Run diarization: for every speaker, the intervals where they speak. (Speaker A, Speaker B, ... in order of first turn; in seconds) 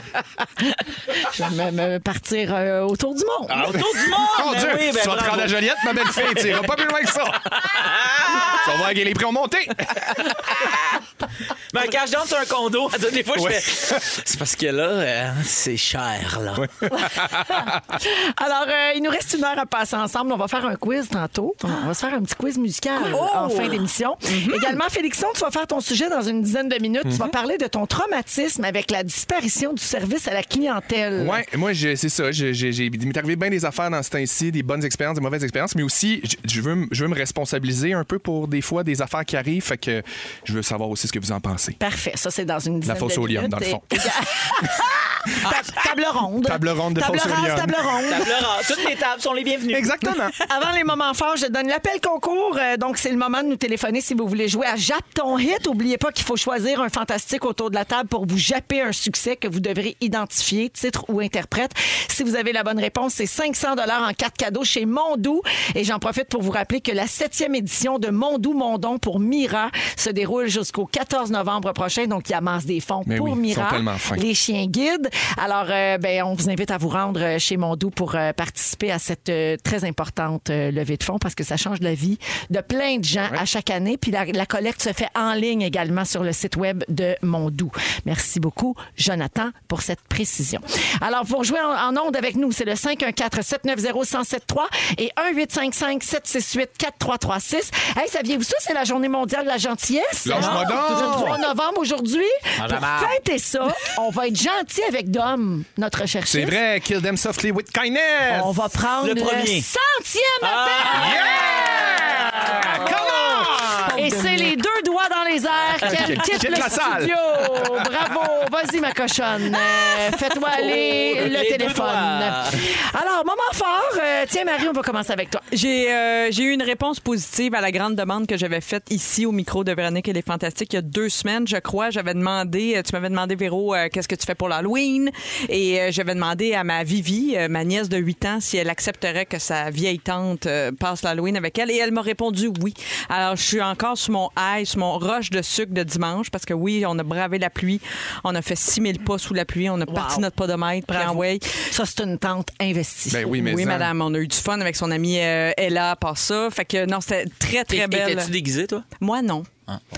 Speaker A: 0.6-3.7, 17.0-31.4, 41.8-48.6, 50.4-106.6, 108.3-125.4, 149.9-150.3, 150.9-153.3
Speaker B: 3.5-6.6, 7.5-8.7, 11.7-16.6, 48.1-49.9, 100.3-101.3, 102.5-103.2, 109.0-109.7, 110.4-111.4, 120.5-122.6, 157.7-158.8
Speaker C: 3.8-10.7, 13.3-14.0, 16.6-17.9, 31.2-41.8, 42.9-44.1, 46.4-47.9, 49.7-50.4, 73.0-74.2, 100.2-101.4, 106.3-108.5, 110.9-114.0, 115.8-117.9, 153.1-153.9
Speaker D: 23.0-24.8, 113.8-114.5, 125.5-151.5, 153.3-158.3, 159.0-159.5